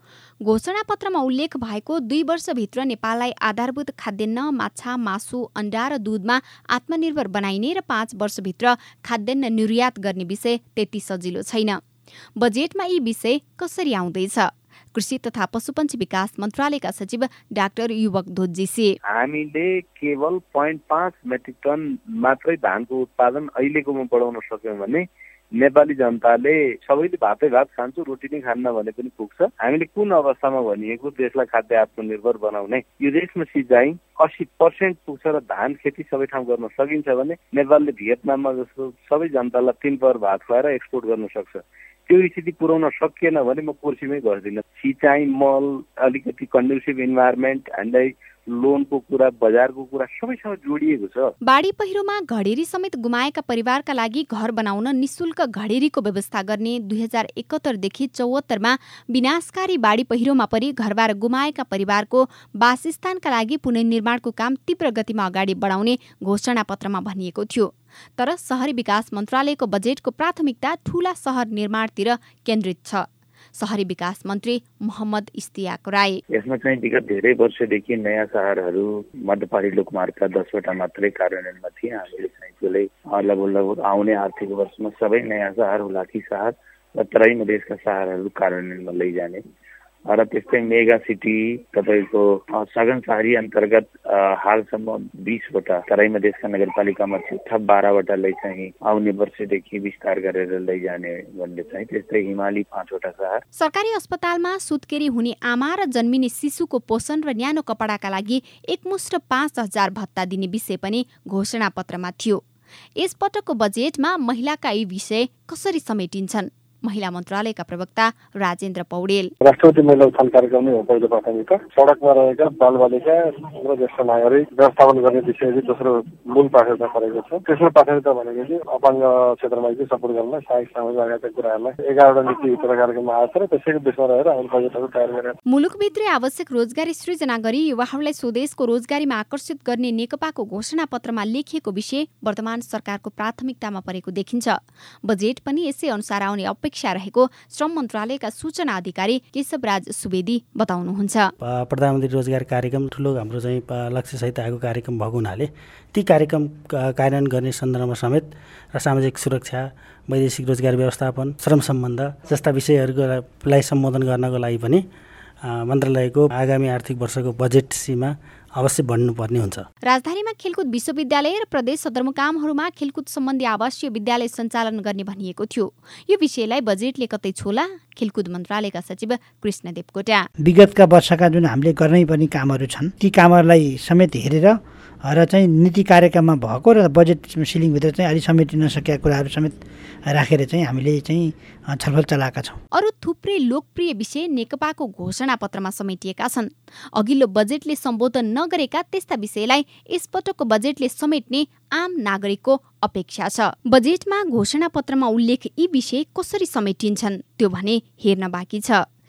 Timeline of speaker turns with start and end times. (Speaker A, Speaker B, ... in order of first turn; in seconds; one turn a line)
Speaker A: 0.5-11.8
Speaker A: 12.4-19.0
Speaker B: 19.1-51.3
Speaker A: 51.4-73.0
Speaker A: 73.6-76.2
Speaker C: 76.3-89.4
Speaker C: 90.1-103.4
Speaker A: 103.6-112.4
Speaker A: 113.0-119.3
Speaker D: 119.4-135.4
Speaker A: 135.5-151.3
Speaker E: 151.4-164.8
Speaker E: 165.5-169.7
Speaker A: 169.9-180.3
Speaker F: 180.4-192.6
Speaker A: 192.8-208.8